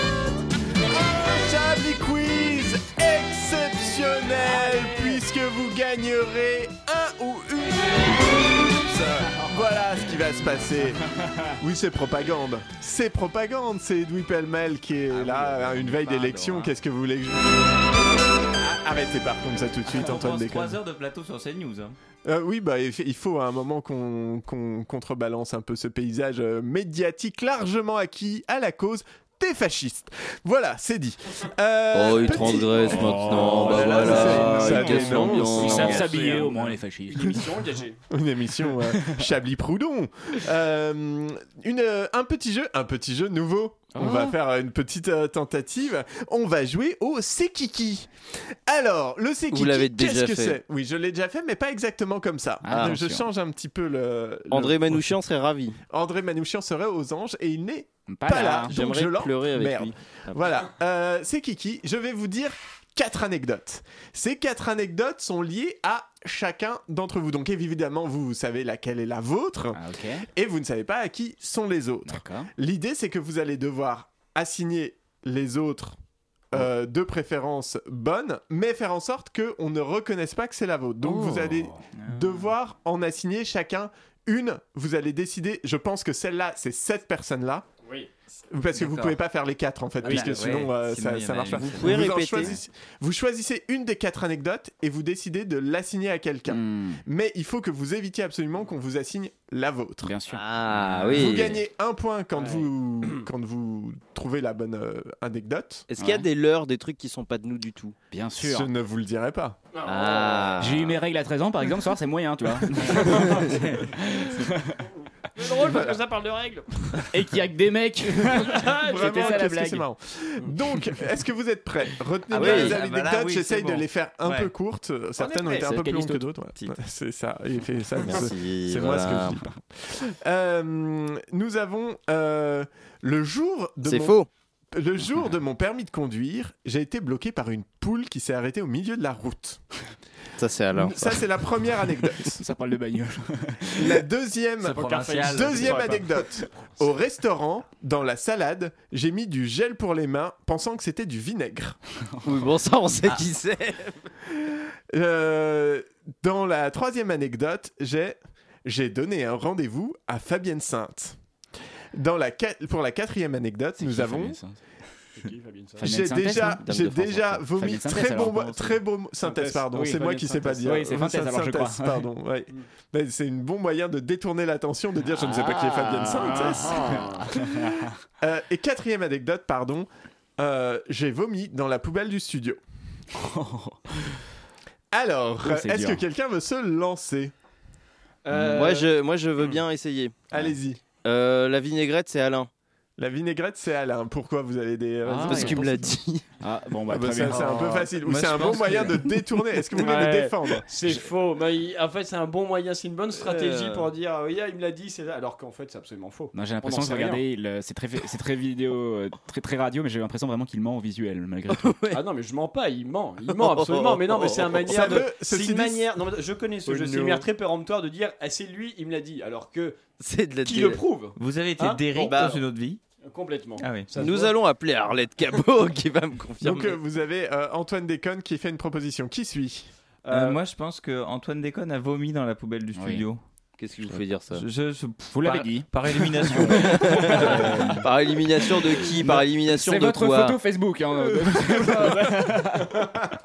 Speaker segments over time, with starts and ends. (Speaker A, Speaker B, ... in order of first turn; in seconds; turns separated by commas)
Speaker A: 0.9-11.1, Speaker B: 4.5-5.2, Speaker B: 11.1-11.4, Speaker A: 11.6-17.8, Speaker C: 15.2-16.6, Speaker A: 18.6-20.8, Speaker C: 19.9-22.0, Speaker A: 22.2-36.1, Speaker D: 31.9-36.4, Speaker B: 32.2-37.6, Speaker E: 33.9-34.8, Speaker E: 35.5-38.0, Speaker A: 38.1-48.1, Speaker B: 38.9-39.2, Speaker B: 43.9-44.3, Speaker A: 48.7-55.0, Speaker D: 49.5-50.6, Speaker B: 52.6-53.2, Speaker D: 54.5-55.8, Speaker A: 55.9-69.8, Speaker B: 58.1-58.8, Speaker D: 58.6-60.5, Speaker B: 69.7-70.2, Speaker A: 70.3-76.0, Speaker B: 72.1-72.5, Speaker A: 76.5-87.7, Speaker B: 81.0-81.8, Speaker E: 87.8-88.1, Speaker A: 88.5-100.1, Speaker C: 88.8-89.2, Speaker C: 90.0-92.5, Speaker E: 90.0-90.4, Speaker D: 91.7-92.5, Speaker B: 96.5-97.0, Speaker B: 100.0-101.4, Speaker D: 100.3-101.6, Speaker A: 101.1-105.9, Speaker E: 102.3-103.3, Speaker D: 105.9-108.0, Speaker B: 106.0-106.3, Speaker B: 108.1-108.7, Speaker A: 108.4-109.6, Speaker E: 109.7-110.6, Speaker D: 109.8-110.9, Speaker B: 110.6-114.7, Speaker E: 113.1-113.4, Speaker E: 115.3-117.1, Speaker B: 117.1-119.9, Speaker E: 118.4-119.4, Speaker A: 118.8-134.2, Speaker D: 122.3-122.8, Speaker C: 122.3-124.5, Speaker E: 125.2-125.7, Speaker B: 125.7-126.1, Speaker D: 128.0-129.4, Speaker D: 133.8-134.3, Speaker A: 134.7-139.6, Speaker D: 140.4-141.2, Speaker A: 140.7-142.4, Speaker B: 142.4-144.1, Speaker A: 143.8-151.8, Speaker C: 144.6-146.0, Speaker E: 144.7-146.1, Speaker D: 152.2-154.0, Speaker A: 154.4-161.2, Speaker A: 161.9-164.4, Speaker B: 163.8-164.6, Speaker E: 165.2-165.9, Speaker B: 165.8-166.6, Speaker A: 165.8-177.6, Speaker D: 166.6-167.4, Speaker B: 167.5-168.8, Speaker E: 169.2-170.8, Speaker B: 169.7-170.0, Speaker B: 170.6-172.1, Speaker B: 175.1-177.9, Speaker E: 176.2-177.3, Speaker A: 178.2-182.6, Speaker B: 183.1-184.0, Speaker A: 184.9-187.3, Speaker B: 185.4-186.0, Speaker E: 188.2-188.9, Speaker D: 188.4-190.2, Speaker A: 190.3-190.8, Speaker D: 191.0-192.5, Speaker A: 193.0-195.9, Speaker B: 195.1-195.6, Speaker D: 195.2-196.2, Speaker B: 196.4-197.9, Speaker A: 196.9-200.7, Speaker C: 198.0-199.1, Speaker E: 199.8-207.2, Speaker D: 203.2-203.9, Speaker B: 206.3-211.8, Speaker D: 211.5-212.0, Speaker E: 211.9-219.8, Speaker D: 213.3-215.0, Speaker A: 214.7-215.9, Speaker A: 216.7-217.3, Speaker D: 220.0-220.8, Speaker E: 220.4-222.4, Speaker C: 221.2-222.8, Speaker E: 223.0-224.4, Speaker C: 223.6-223.9, Speaker D: 223.9-226.8, Speaker A: 226.4-229.7, Speaker E: 230.1-230.4, Speaker C: 230.1-233.2, Speaker B: 232.7-233.0, Speaker D: 233.6-234.4, Speaker C: 234.3-237.8, Speaker B: 235.1-237.8, Speaker D: 236.5-240.4, Speaker B: 239.4-242.9